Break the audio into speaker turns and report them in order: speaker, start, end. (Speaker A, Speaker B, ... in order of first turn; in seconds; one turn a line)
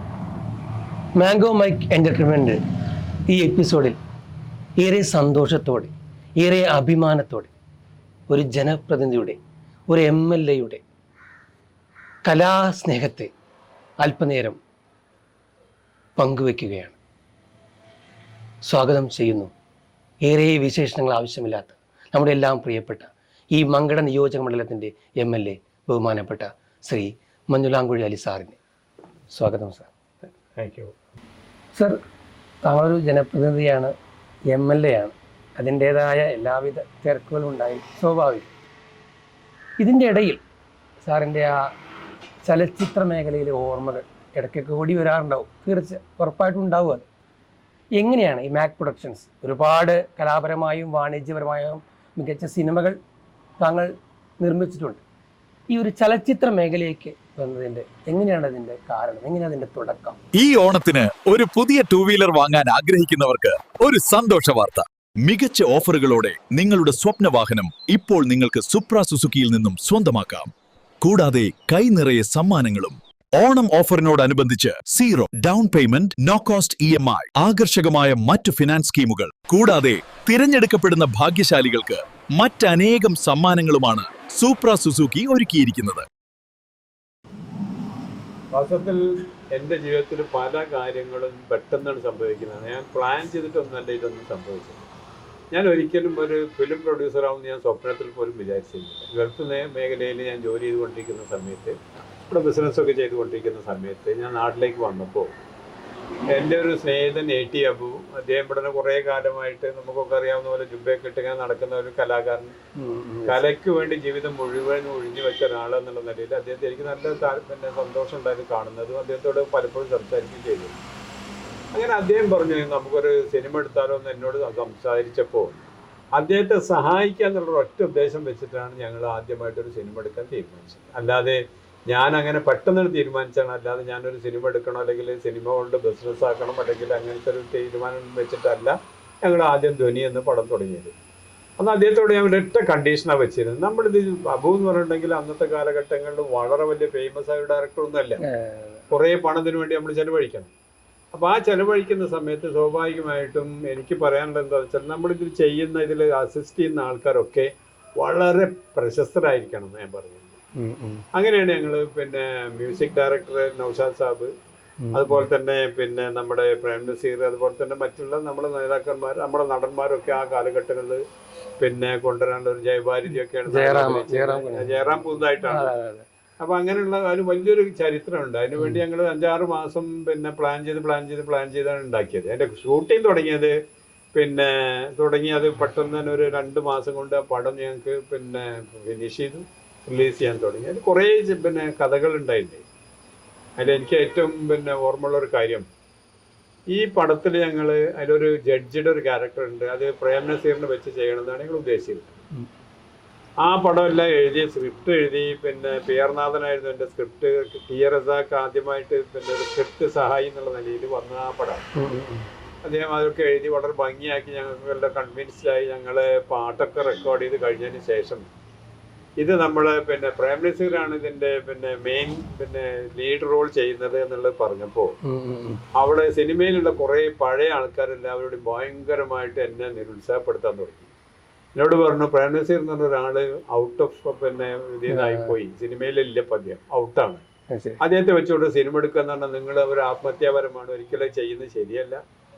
Speaker A: 1.2-2.6
Speaker A: 3.3-4.0
Speaker A: 4.8-7.5
Speaker A: 8.3-10.8
Speaker A: 12.2-13.3
Speaker A: 14.0-14.6
Speaker A: 16.2-17.0
Speaker A: 18.6-19.5
Speaker A: 20.2-28.6
Speaker A: 29.3-29.9
Speaker B: 30.6-30.9
Speaker A: 32.6-33.9
Speaker A: 34.5-38.5
Speaker A: 39.8-40.4
Speaker A: 41.0-41.7
Speaker A: 42.4-47.1
Speaker A: 48.0-53.0
Speaker A: 53.6-55.0
Speaker A: 55.7-60.2
Speaker C: 60.4-86.1
Speaker B: 88.5-94.8
Speaker B: 95.5-101.8
Speaker B: 102.3-105.3
Speaker B: 106.3-112.5
Speaker A: 112.8-113.4
Speaker B: 113.3-120.8
Speaker B: 121.7-140.9
Speaker B: 141.6-148.2
Speaker A: 148.2-148.8
Speaker B: 148.9-150.5
Speaker B: 151.1-160.4
Speaker A: 160.6-161.0
Speaker B: 161.1-164.3
Speaker A: 164.8-165.2
Speaker B: 164.9-171.0
Speaker B: 171.6-175.7
Speaker A: 173.5-176.1
Speaker B: 176.4-183.5
Speaker B: 184.1-192.7
Speaker B: 193.6-195.7
Speaker B: 196.7-202.2
Speaker B: 203.4-211.7
Speaker A: 211.8-212.3
Speaker B: 212.6-218.2
Speaker B: 219.2-225.0
Speaker A: 225.0-225.6
Speaker B: 225.7-230.9
Speaker B: 231.6-237.2
Speaker A: 234.9-235.3
Speaker A: 237.5-237.8
Speaker B: 237.8-242.0